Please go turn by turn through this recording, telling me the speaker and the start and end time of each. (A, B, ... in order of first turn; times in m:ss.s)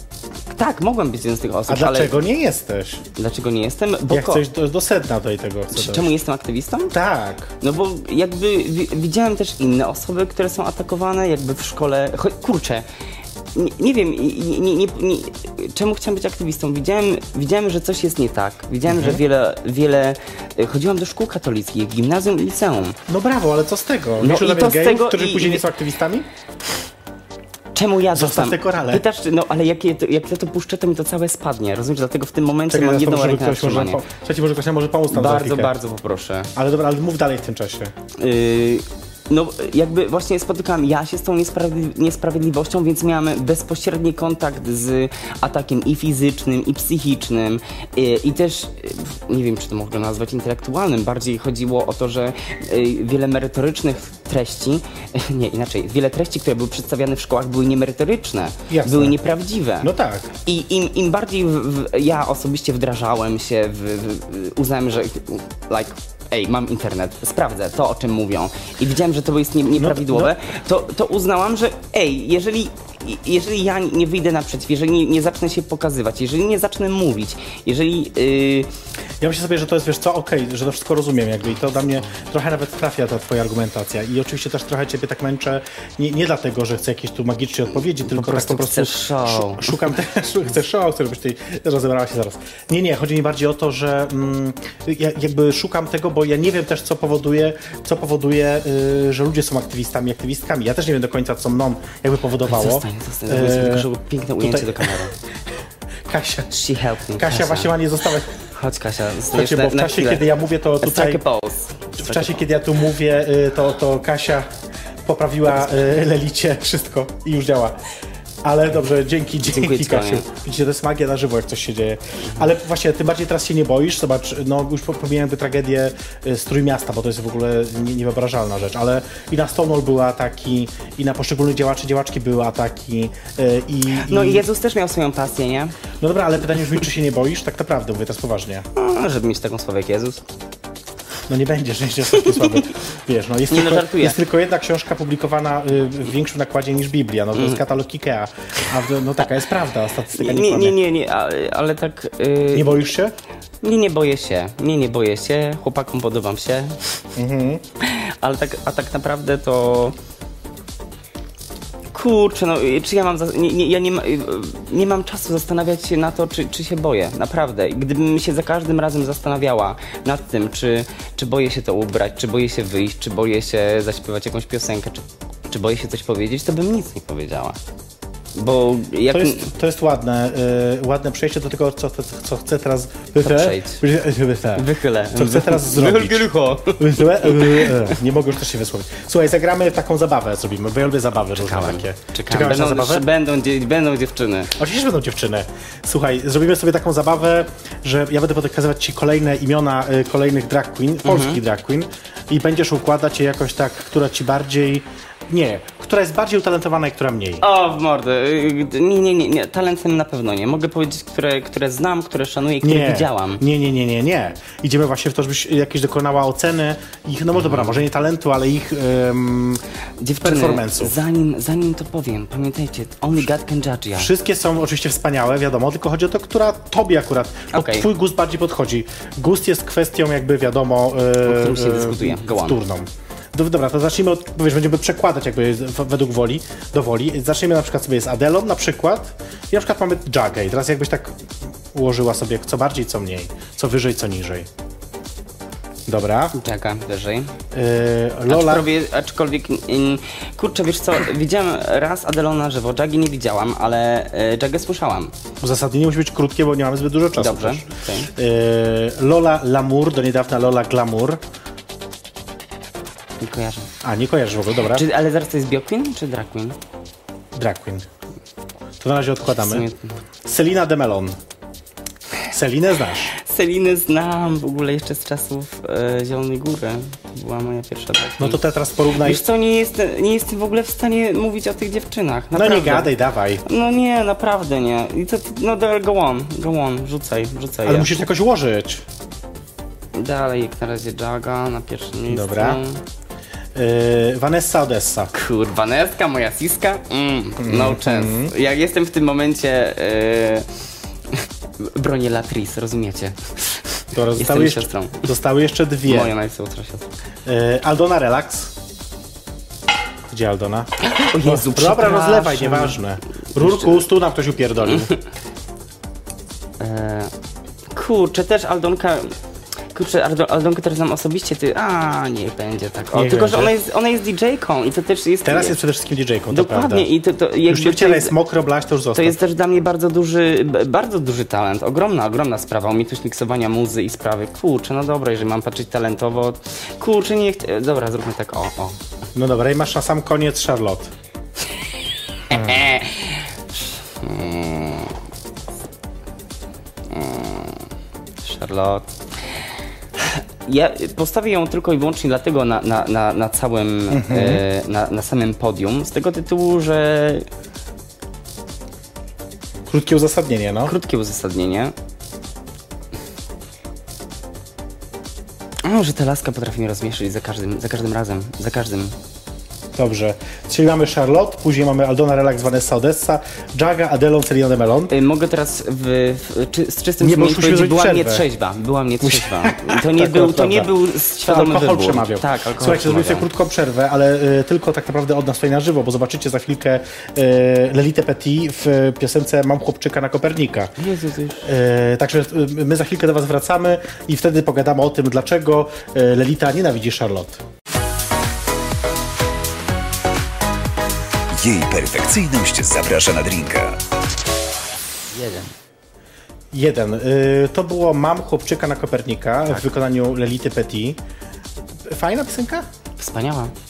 0:00.5-0:02.1 A
0:01.7-0:03.0 B
0:03.2-0:04.4 A
0:04.1-0:06.1 B
0:05.7-0:06.9 A
0:06.9-0:07.5 B
0:07.6-0:12.8 A
0:13.5-0:23.0 A
0:18.9-0:19.2 B
0:23.1-0:26.3 B
0:24.2-0:25.6 A
0:27.7-0:34.0 A
0:28.1-0:29.0 B
0:32.7-0:35.7 B
0:35.1-0:36.5 A
0:36.5-0:37.9 B
0:38.2-0:59.9 A
0:58.7-0:59.2 B
0:59.8-1:00.3 B
1:00.4-1:18.7 A
1:09.8-1:10.3 B
1:19.2-1:43.9 B
1:27.9-1:29.8 A
1:42.4-1:45.1 A
1:44.4-1:45.0 B
1:46.1-1:46.5 B
1:46.5-1:47.7 A
1:47.2-1:48.3 B
1:48.5-1:50.2 A
1:49.3-1:51.2 B
1:50.8-1:52.4 A
1:52.0-1:54.5 B
1:55.0-1:57.8 B
1:58.4-2:14.4 B
1:59.4-2:00.3 A
2:13.9-2:15.7 A
2:16.0-2:18.7 B
2:18.7-2:20.2 A
2:21.3-2:30.8 B
2:22.2-2:22.5 A
2:23.5-2:24.2 A
2:30.1-2:32.8 A
2:32.5-2:33.1 B
2:33.6-2:37.0 A
2:37.2-2:37.6 B
2:37.8-2:40.0 A
2:41.9-2:57.6 A
2:58.3-2:59.5 A
2:59.1-3:13.0 B
3:03.2-3:03.8 A
3:04.6-3:07.9 A
3:11.4-3:14.5 A
3:14.6-3:27.4 B
3:21.0-3:21.4 A
3:27.4-3:33.4 A
3:32.6-3:39.6 B
3:37.4-3:37.8 A
3:40.0-3:44.1 A
3:40.2-3:41.0 B
3:44.0-4:01.2 B
3:47.5-3:47.9 A
3:51.2-3:52.6 A
4:01.7-4:04.5 B
4:05.9-4:06.4 B
4:06.3-4:07.3 A
4:07.5-4:08.7 B
4:08.3-4:15.1 A
4:15.4-4:21.2 B
4:17.2-4:18.1 A
4:23.2-4:23.7 A
4:23.8-4:24.8 B
4:24.7-4:26.6 A
4:27.3-4:27.9 B
4:28.8-4:29.6 B
4:29.3-4:29.9 A
4:30.2-4:31.2 B
4:32.3-4:33.1 B
4:33.1-4:38.4 A
4:38.2-4:39.2 B
4:38.9-4:48.0 A
4:42.3-4:43.4 B
4:47.6-4:48.8 B
4:49.9-4:52.8 A
4:52.1-4:52.6 B
4:53.5-4:55.1 B
4:55.1-5:00.5 A
4:57.4-4:58.3 B
5:01.6-5:05.1 A
5:03.9-5:06.2 B
5:05.8-5:06.9 A
5:07.2-5:08.5 B
5:10.1-5:14.9 B
5:10.8-5:12.8 A
5:13.4-5:13.8 A
5:14.6-5:14.9 A
5:16.6-5:17.1 A
5:17.7-5:19.2 A
5:19.7-5:25.6 A
5:22.9-5:23.5 B
5:25.2-5:26.9 B
5:26.3-5:28.1 A
5:27.5-5:29.2 B
5:28.9-5:38.8 A
5:39.1-5:40.9 B
5:42.3-5:45.0 A
5:42.3-5:42.6 B
5:46.9-5:47.7 A
5:48.2-5:48.9 A
5:50.0-5:57.3 A
5:53.9-5:54.4 B
5:59.7-6:00.7 B
6:00.6-6:01.7 A
6:05.6-6:08.9 A
6:09.7-6:14.9 B
6:14.9-6:23.3 A
6:17.0-6:18.2 B
6:19.0-6:30.7 B
6:30.8-6:31.5 A
6:31.4-6:37.4 B
6:41.3-6:43.8 C
6:45.1-6:45.5 A
6:46.5-6:51.0 B
6:51.9-6:52.6 B
6:53.0-6:53.5 A